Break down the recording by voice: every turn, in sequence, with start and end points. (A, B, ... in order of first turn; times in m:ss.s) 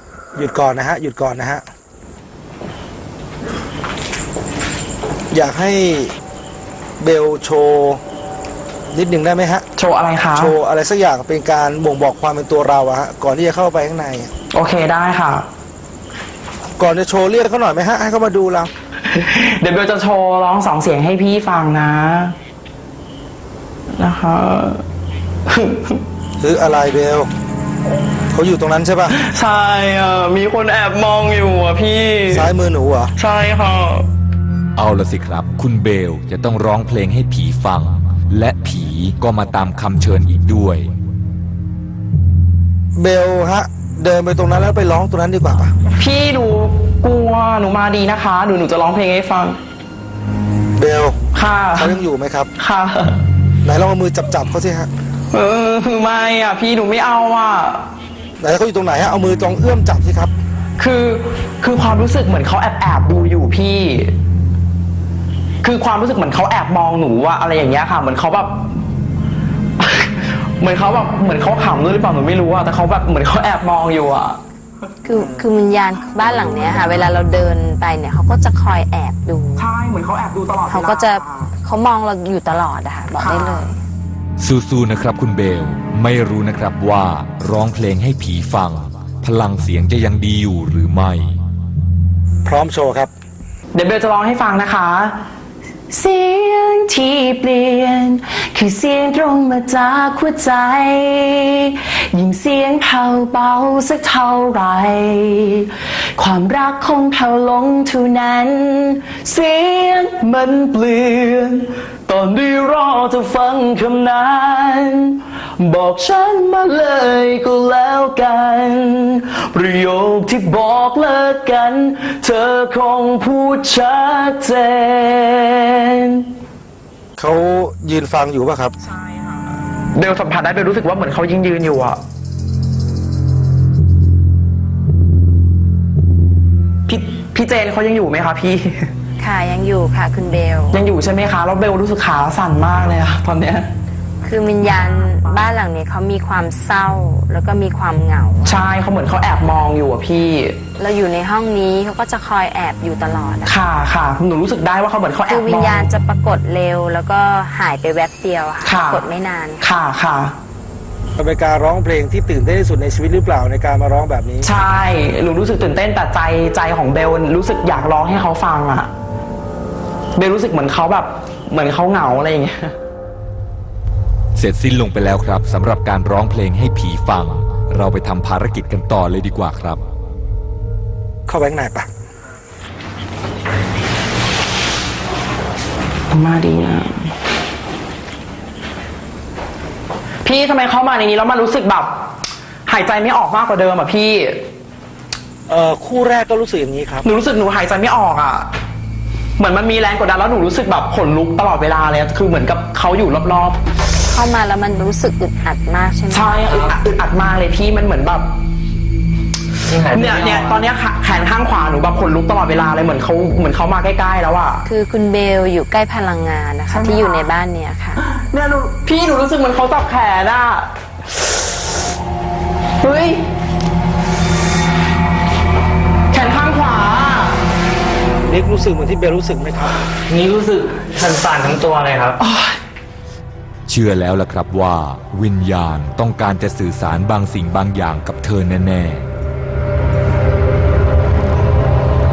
0:00.3-0:01.6 A
0:05.3-0:06.1 A
0:07.0-0:08.0 A
0:08.9-0:09.6 A
0:09.8-0:10.6 B
0:10.3-0:14.3 A
0:14.5-0:15.5 B
0:16.8-0:18.7 A
0:19.0-0:22.3 B
0:23.9-0:24.8 B
0:25.5-0:26.0 B
0:26.4-0:27.3 A
0:28.3-0:29.2 A
0:29.1-0:32.5 B
0:32.3-0:33.1 A
0:33.2-0:34.1 B
0:34.8-0:40.9 C
0:43.0-0:45.7 A
0:45.9-0:49.6 B
0:50.8-0:51.2 A
0:51.3-0:52.0 B
0:51.8-0:52.5 A
0:52.6-0:53.2 B
0:53.6-0:54.9 A
0:55.3-0:57.8 B
0:58.4-1:00.3 A
1:00.8-1:04.1 B
1:05.6-1:08.8 B
1:09.8-1:14.4 B
1:15.0-1:19.7 D
1:19.6-1:21.5 B
1:20.7-1:23.8 D
1:23.1-1:23.7 B
1:24.4-1:31.4 C
1:32.4-1:33.1 A
1:33.7-1:35.2 B
1:35.9-2:06.3 B
2:07.2-2:08.7 A
2:09.9-2:12.0 B
2:16.9-2:18.9 B
2:19.2-2:20.8 D
2:20.7-2:23.7 B
2:24.2-2:28.6 D
2:28.4-2:30.6 B
2:30.8-2:33.5 D
2:33.4-2:35.9 B
2:35.3-2:39.7 D
2:38.6-2:39.0 B
2:39.6-2:40.4 B
2:41.2-2:44.5 A
2:44.4-2:48.9 B
2:50.1-2:52.8 B
2:54.4-2:59.8 C
3:01.3-3:01.9 A
3:06.1-3:07.1 B
3:10.2-3:12.0 B
3:12.6-3:14.4 B
3:15.5-3:17.0 A
3:17.0-3:18.5 B
3:19.4-3:23.6 B
3:24.1-3:26.6 D
3:26.1-3:28.3 B
3:29.6-3:30.6 E
3:29.9-3:34.6 B
3:34.6-3:38.0 D
3:36.7-3:37.3 B
3:38.0-3:40.7 B
3:42.8-3:43.2 B
3:46.1-3:47.4 B
3:48.3-3:49.8 A
3:50.1-3:52.2 E
3:52.2-3:52.6 B
3:53.7-3:59.1 C